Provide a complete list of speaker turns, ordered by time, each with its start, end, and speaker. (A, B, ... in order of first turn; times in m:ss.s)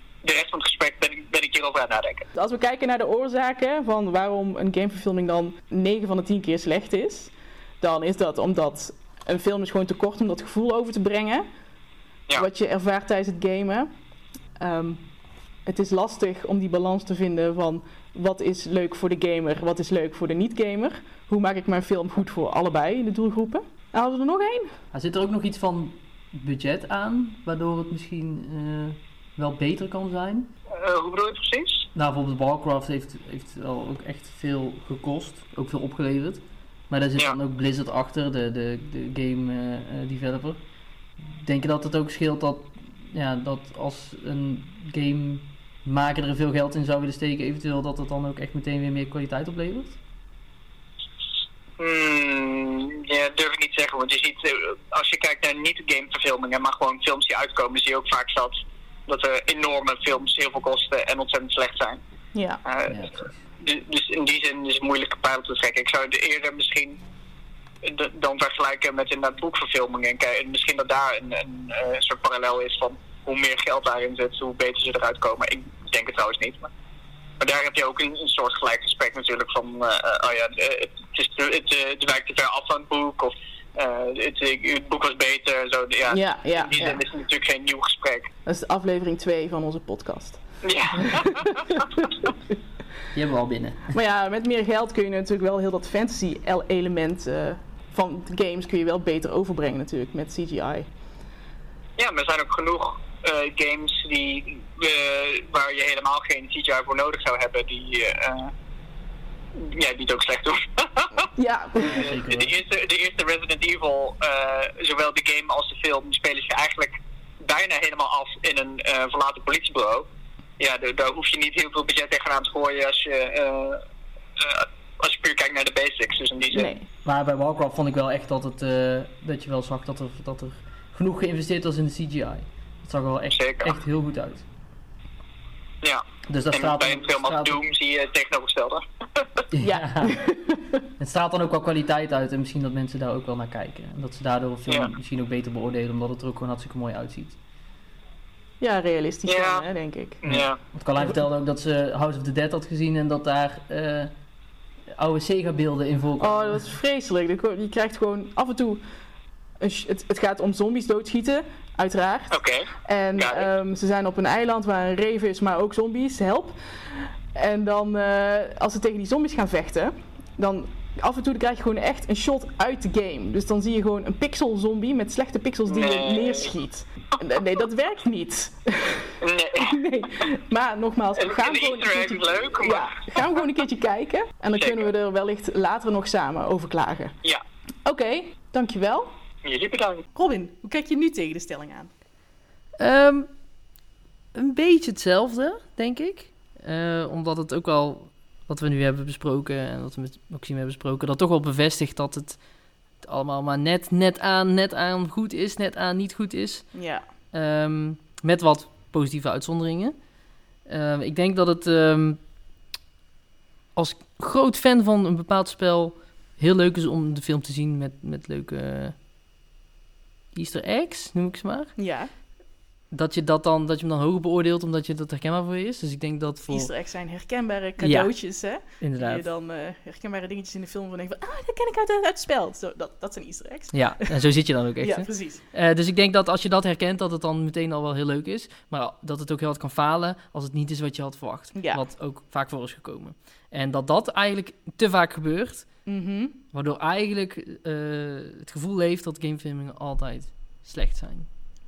0:00.2-0:02.2 A
0:02.3-0:11.4 B
0:12.3-0:13.9 B
0:14.6-0:15.0 B
0:15.6-0:24.7 B
0:24.9-0:30.5 C
0:30.7-0:31.9 A
0:31.9-0:40.6 C
0:41.2-0:50.0 C
0:51.8-0:58.5 A
0:59.1-1:02.0 A
1:02.3-1:02.6 B
1:02.6-1:07.0 A
1:02.9-1:03.3 C
1:07.8-1:16.7 A
1:17.4-1:28.3 A
1:26.1-1:27.0 B
1:28.4-1:30.4 B
1:30.6-1:32.0 A
1:30.9-1:32.1 B
1:33.1-1:33.9 C
1:33.9-1:40.9 B
1:42.0-1:48.5 A
1:49.6-1:51.3 A
1:51.4-1:52.0 B
1:51.8-1:52.5 C
1:51.8-2:00.1 A
2:00.6-2:03.8 A
2:04.4-2:06.7 A
2:06.5-2:06.9 B
2:07.0-2:14.4 C
2:13.3-2:13.7 A
2:15.8-2:19.4 A
2:16.2-2:17.6 C
2:19.5-2:20.3 C
2:19.6-2:20.8 B
2:21.0-2:27.4 C
2:28.6-2:30.2 B
2:29.3-2:29.6 A
2:30.2-2:30.6 A
2:30.2-2:34.1 C
2:34.9-2:36.7 C
2:36.2-2:38.8 B
2:39.6-2:42.3 B
2:42.3-2:43.5 A
2:42.8-3:07.1 B
2:55.7-2:56.5 A
2:59.2-2:59.8 A
3:01.2-3:03.4 A
3:04.6-3:04.9 A
3:07.8-3:09.1 B
3:09.4-3:10.0 A
3:10.1-3:11.9 B
3:12.8-3:13.3 C
3:14.3-3:22.4 C
3:23.0-3:26.7 C
3:26.7-3:27.0 B
3:27.3-3:30.0 C
3:30.6-3:32.2 C
3:33.7-3:38.9 C
3:40.3-3:41.7 C
3:41.8-3:42.1 B
3:42.9-3:46.7 C
3:46.5-3:54.2 B
3:47.8-3:49.2 C
3:53.7-4:05.7 C
3:54.8-3:55.4 B
4:01.5-4:01.8 B
4:05.8-4:06.4 B
4:06.5-4:11.3 C